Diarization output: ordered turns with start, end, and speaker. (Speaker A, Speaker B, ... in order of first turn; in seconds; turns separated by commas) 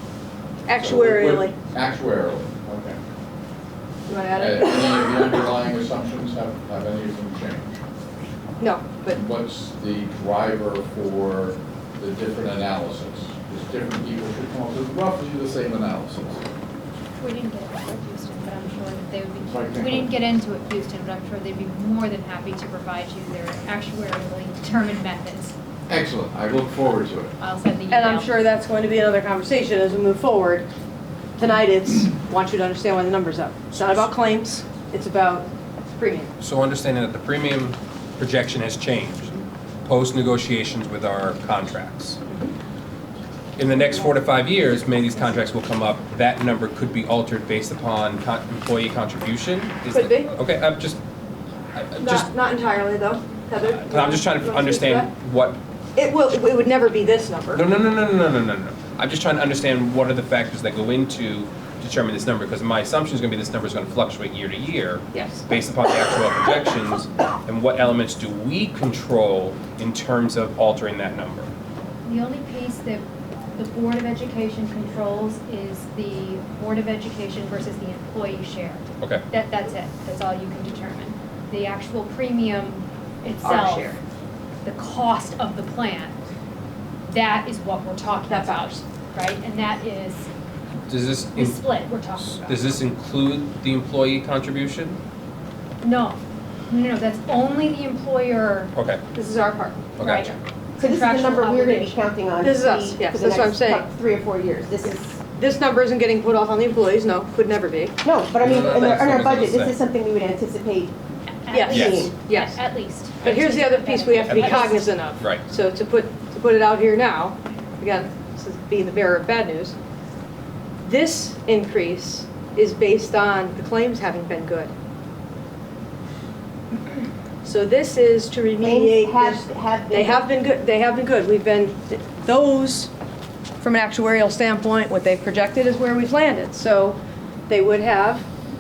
Speaker A: 0.7-1.6, Speaker B: 0.7-3.0, Speaker A: 4.1-5.1, Speaker B: 4.3-7.8, Speaker A: 8.6-9.2, Speaker B: 9.1-16.4, Speaker C: 17.2-25.6, Speaker B: 19.4-20.1, Speaker B: 25.9-27.3, Speaker C: 27.4-28.3, Speaker A: 27.9-30.7, Speaker A: 31.4-36.3, Speaker D: 36.4-42.2, Speaker A: 42.3-42.5, Speaker D: 43.6-51.0, Speaker A: 49.9-50.3, Speaker D: 51.8-52.3, Speaker A: 52.0-55.1, Speaker D: 53.6-55.6, Speaker A: 56.0-57.6, Speaker D: 57.5-71.5, Speaker A: 65.1-65.4, Speaker C: 72.0-83.9, Speaker A: 83.4-84.0, Speaker C: 84.7-86.2, Speaker C: 87.1-90.3, Speaker A: 88.3-88.8, Speaker D: 90.9-91.6, Speaker C: 91.3-92.5, Speaker D: 92.4-95.0, Speaker C: 95.8-96.2, Speaker C: 96.7-98.7, Speaker D: 98.7-99.0, Speaker A: 99.2-100.4, Speaker D: 100.0-100.3, Speaker C: 100.0-102.0, Speaker E: 100.8-105.2, Speaker A: 102.4-103.9, Speaker A: 104.8-108.0, Speaker E: 108.0-110.9, Speaker D: 108.4-109.8, Speaker C: 111.3-114.9, Speaker A: 111.5-112.6, Speaker D: 111.7-112.1, Speaker E: 111.8-112.1, Speaker A: 113.2-119.8, Speaker D: 114.2-115.4, Speaker A: 120.8-124.7, Speaker A: 127.4-132.9, Speaker E: 128.6-130.4, Speaker A: 133.6-137.0, Speaker A: 137.5-138.2